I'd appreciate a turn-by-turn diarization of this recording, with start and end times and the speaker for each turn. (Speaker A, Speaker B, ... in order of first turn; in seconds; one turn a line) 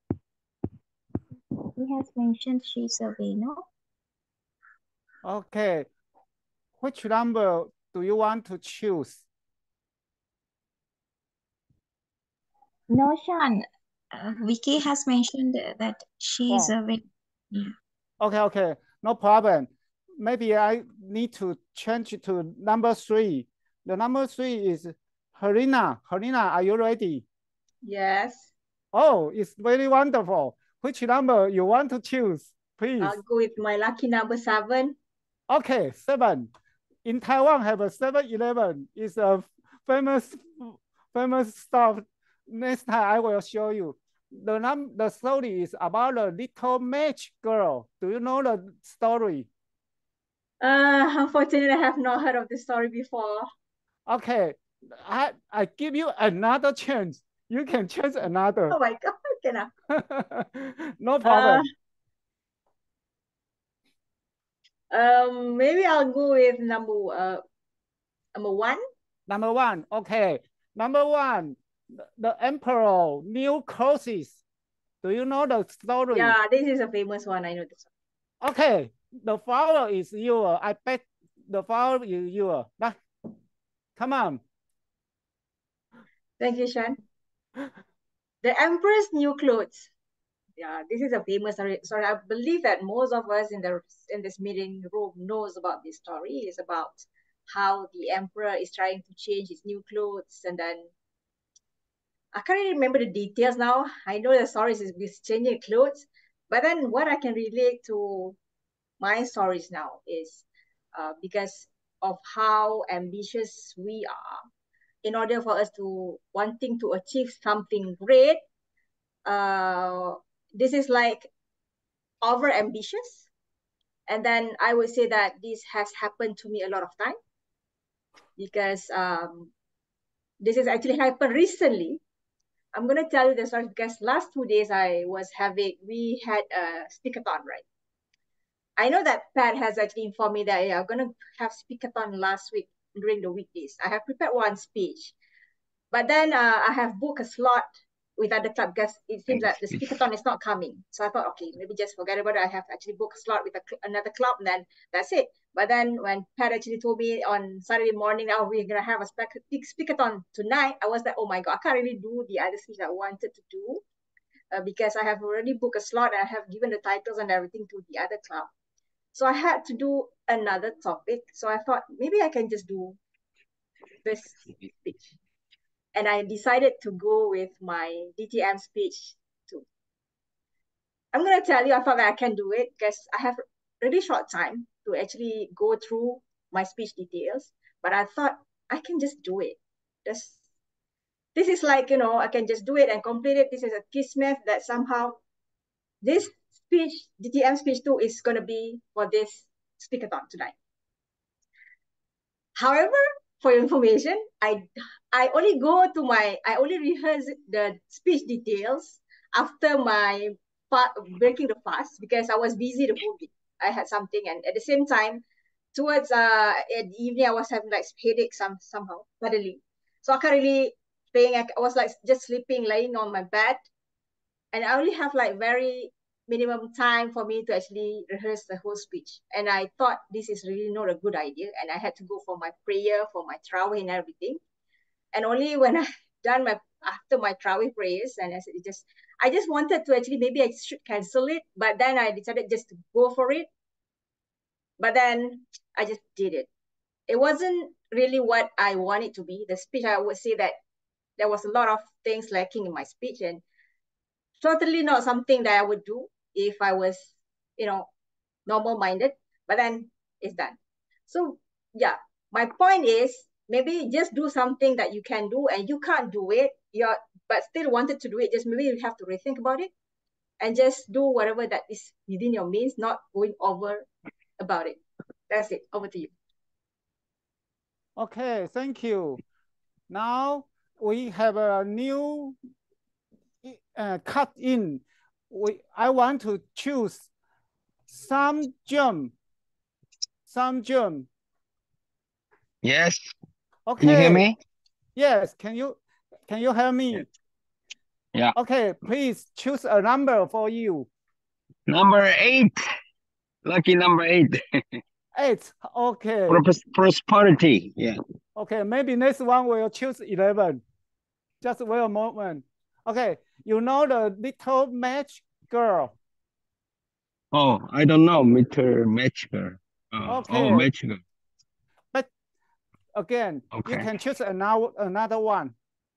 Speaker A: 1.7-3.6
Speaker B: 5.2-5.9
Speaker B: 6.8-9.2
Speaker A: 12.9-17.7
Speaker B: 18.2-27.2
Speaker C: 27.8-28.5
Speaker B: 28.9-33.2
Speaker C: 33.0-35.0
Speaker B: 35.5-36.5
Speaker B: 37.0-49.5
Speaker C: 50.6-53.5
Speaker B: 54.0-58.8
Speaker C: 58.7-59.7
Speaker B: 59.9-61.6
Speaker C: 61.2-61.7
Speaker C: 64.9-67.4
Speaker C: 68.3-68.8
Speaker B: 69.3-74.4
Speaker B: 75.0-76.3
Speaker C: 76.1-77.9
Speaker B: 78.4-83.0
Speaker B: 84.0-84.4
Speaker C: 86.4-87.0
Speaker C: 88.4-89.9
Speaker C: 90.6-100.9
Speaker C: 102.3-108.4
Speaker C: 109.0-114.4
Speaker C: 115.0-118.4
Speaker C: 119.2-121.3
Speaker C: 122.2-123.2
Speaker C: 124.1-127.2
Speaker C: 128.4-129.5
Speaker C: 130.4-132.0
Speaker C: 132.7-137.6
Speaker C: 138.8-145.1
Speaker C: 145.9-163.8
Speaker D: 149.3-149.9
Speaker C: 164.5-168.5
Speaker C: 169.1-173.0
Speaker C: 174.0-175.1
Speaker C: 175.9-179.6
Speaker C: 181.1-190.3
Speaker C: 191.3-195.2
Speaker C: 196.0-200.5
Speaker C: 202.6-215.2
Speaker C: 215.7-223.6
Speaker C: 224.5-234.4
Speaker C: 235.1-243.5
Speaker C: 244.8-246.5
Speaker C: 247.1-250.6
Speaker C: 251.2-253.4
Speaker C: 254.4-257.9
Speaker C: 258.5-260.6
Speaker C: 261.1-269.7
Speaker C: 270.4-273.9
Speaker C: 274.4-274.8
Speaker C: 275.3-276.1
Speaker B: 278.0-279.2
Speaker B: 279.9-282.4
Speaker B: 283.4-287.1
Speaker B: 287.9-289.1
Speaker B: 290.3-291.1
Speaker D: 292.6-293.1
Speaker B: 293.7-294.3
Speaker D: 293.8-294.4
Speaker B: 294.9-295.8
Speaker B: 296.3-297.1
Speaker B: 298.3-300.9
Speaker D: 301.7-302.6
Speaker D: 303.4-304.4
Speaker B: 305.1-306.4
Speaker D: 306.3-308.0
Speaker B: 308.4-310.6
Speaker B: 311.4-315.9
Speaker D: 317.3-321.0
Speaker B: 320.1-320.7
Speaker B: 322.9-325.5
Speaker D: 323.5-323.9